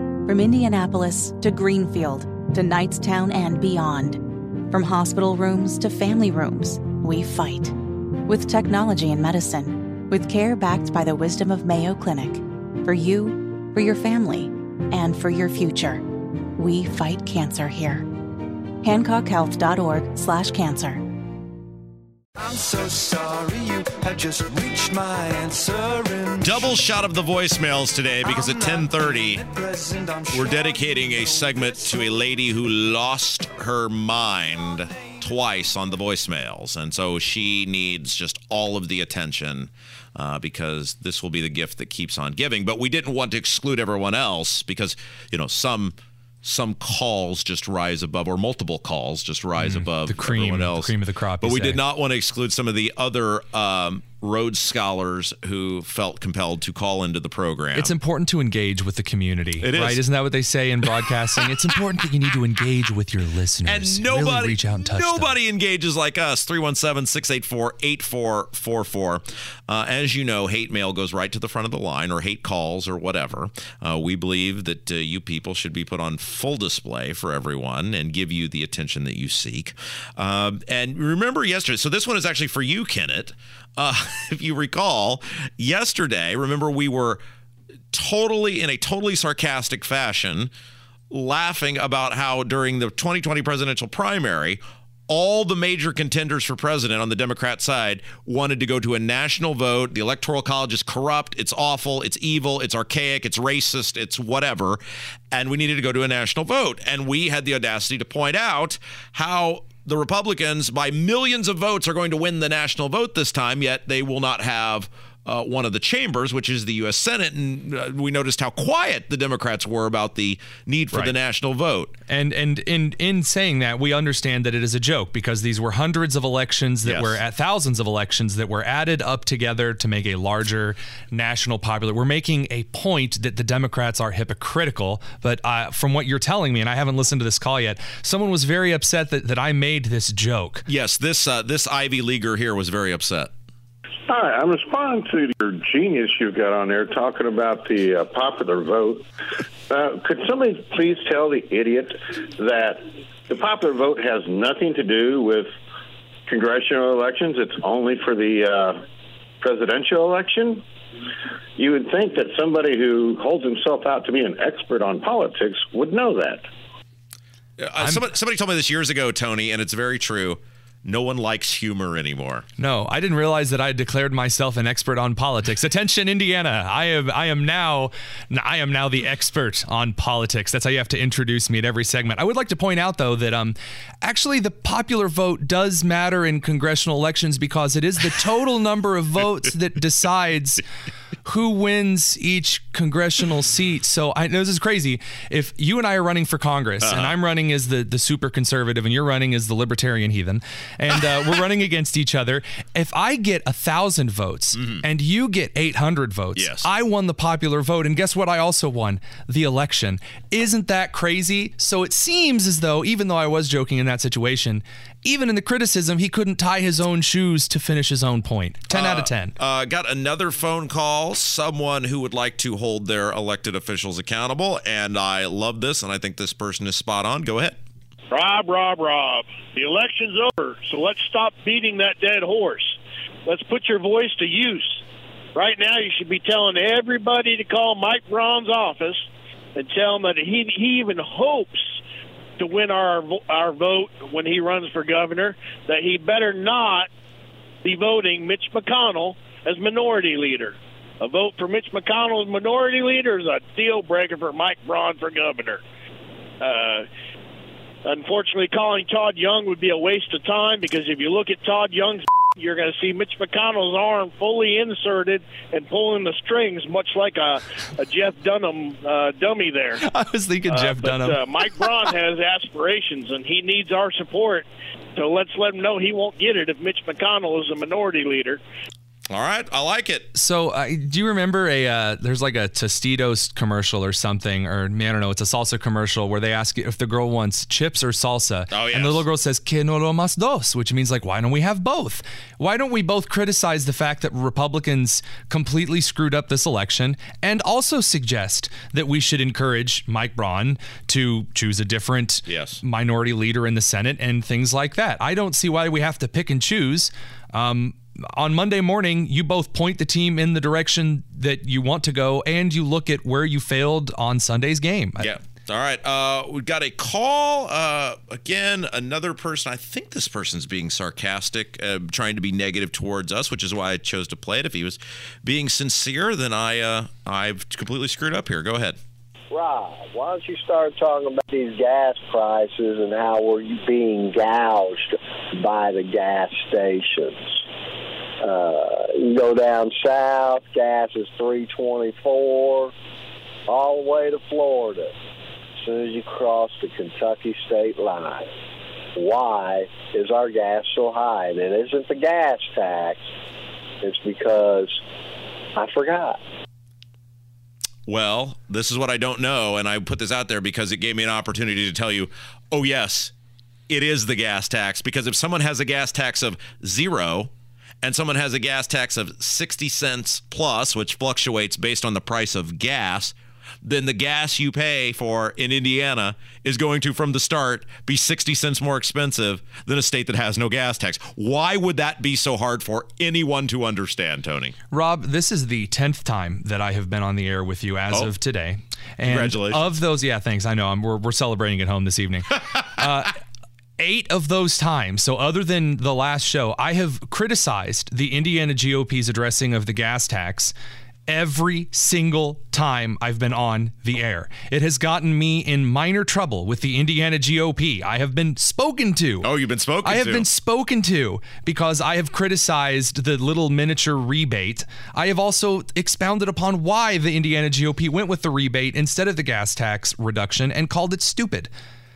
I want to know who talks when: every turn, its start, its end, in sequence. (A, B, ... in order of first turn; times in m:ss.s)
0:00.2-0:07.7 A
0:08.3-0:16.0 A
0:16.5-0:18.1 A
0:18.8-0:21.0 A
0:22.4-0:26.8 B
0:26.4-0:29.5 C
0:28.2-0:32.0 B
0:30.3-0:57.9 C
0:49.7-0:51.7 D
0:57.8-1:05.2 D
0:59.6-1:00.3 C
1:00.8-1:01.7 C
1:03.6-1:27.2 C
1:27.9-1:30.5 C
1:31.1-1:44.8 C
1:45.3-2:02.0 C
2:02.1-2:20.6 D
2:06.8-2:07.2 C
2:20.7-2:23.3 C
2:24.1-2:29.0 E
2:29.7-2:35.5 E
2:36.3-2:38.8 E
2:39.4-2:40.6 E
2:41.6-2:46.5 E
2:47.6-2:52.4 C
2:52.6-3:10.6 D
3:11.3-3:39.1 D
3:16.8-3:17.2 C
3:24.6-3:24.8 C
3:26.3-3:26.7 C
3:38.7-3:47.6 C
3:48.1-3:54.8 F
3:55.3-4:01.8 F
4:02.4-4:06.9 F
4:07.6-4:15.6 F
4:16.4-4:16.8 F
4:17.8-4:29.8 F
4:30.0-4:31.1 D
4:30.5-4:38.4 F
4:39.1-4:40.1 C
4:40.2-5:14.9 D
4:48.5-4:49.0 C
5:02.3-5:02.6 C
5:15.0-5:28.8 C
5:29.3-5:37.4 G
5:38.2-5:42.7 G
5:43.5-5:44.9 G
5:45.6-5:48.3 G
5:48.9-5:53.1 G
5:53.8-5:54.8 G
5:55.5-5:56.2 G
5:57.9-6:03.1 C
6:03.7-6:24.5 C
6:24.7-6:32.2 D
6:27.9-6:28.2 C
6:29.0-6:29.8 C
6:33.8-6:40.5 D
6:41.1-6:49.2 D
6:49.2-6:50.3 C
6:49.8-7:01.5 D